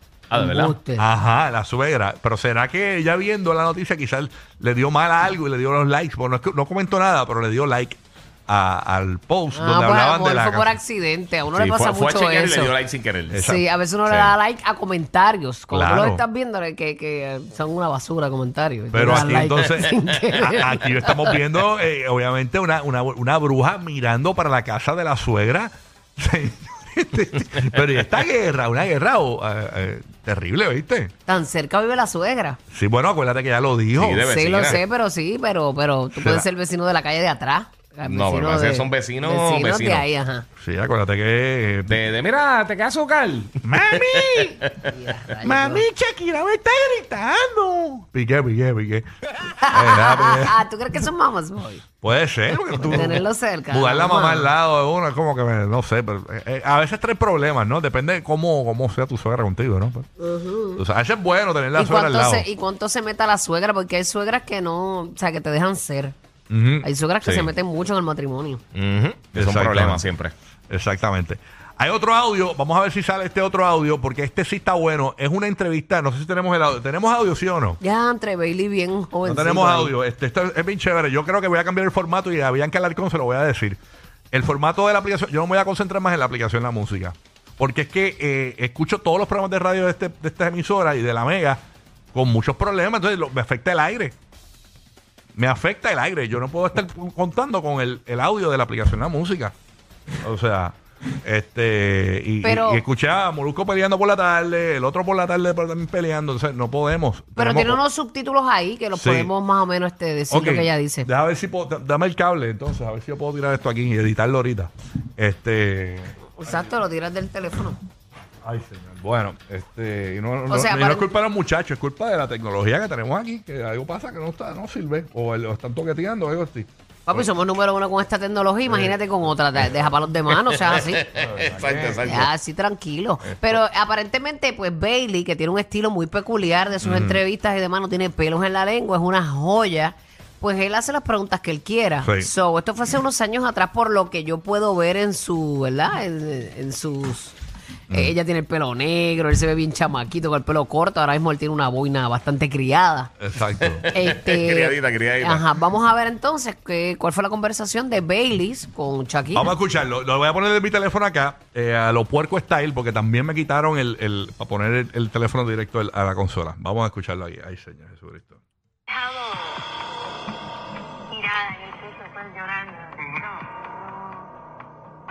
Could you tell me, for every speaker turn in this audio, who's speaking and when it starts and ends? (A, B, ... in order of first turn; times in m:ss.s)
0:00.3-0:00.8 A
0:00.3-0:01.0 B
0:01.0-0:10.7 C
0:09.5-0:12.7 B
0:11.6-0:13.4 A
0:13.3-0:13.7 C
0:13.4-0:21.4 B
0:15.7-0:16.2 C
0:18.9-0:31.1 C
0:31.3-0:32.6 B
0:32.7-0:34.3 C
0:34.0-0:34.8 A
0:34.2-0:40.5 B
0:36.1-0:36.5 C
0:38.1-0:40.0 A
0:40.6-0:42.0 C
0:41.9-0:44.9 A
0:43.6-0:44.6 C
0:44.8-0:45.9 B
0:45.4-0:50.6 C
0:49.6-0:51.9 B
0:52.0-1:00.1 C
0:52.9-0:54.5 B
1:00.2-1:00.8 B
1:00.8-1:02.5 C
1:01.8-1:06.2 B
1:06.5-1:06.9 C
1:06.8-1:08.6 B
1:08.7-1:10.3 A
1:09.4-1:10.1 C
1:10.7-1:17.8 C
1:17.8-1:19.9 B
1:19.2-1:23.8 C
1:24.3-1:34.2 C
1:35.4-1:39.5 C
1:40.2-1:47.8 C
1:42.4-1:42.8 B
1:47.4-1:51.1 B
1:48.9-1:49.3 C
1:50.3-1:56.1 C
1:56.4-1:57.8 B
1:58.4-2:07.2 C
2:00.5-2:01.1 B
2:07.1-2:11.1 B
2:10.4-2:12.3 A
2:11.2-2:12.1 C
2:12.0-2:27.4 B
2:16.8-2:17.2 C
2:22.0-2:22.3 C
2:27.9-2:33.1 B
2:33.2-2:33.9 C
2:33.6-2:35.4 A
2:33.9-2:39.5 B
2:39.3-2:48.4 C
2:48.9-2:49.8 D
2:51.1-2:54.3 D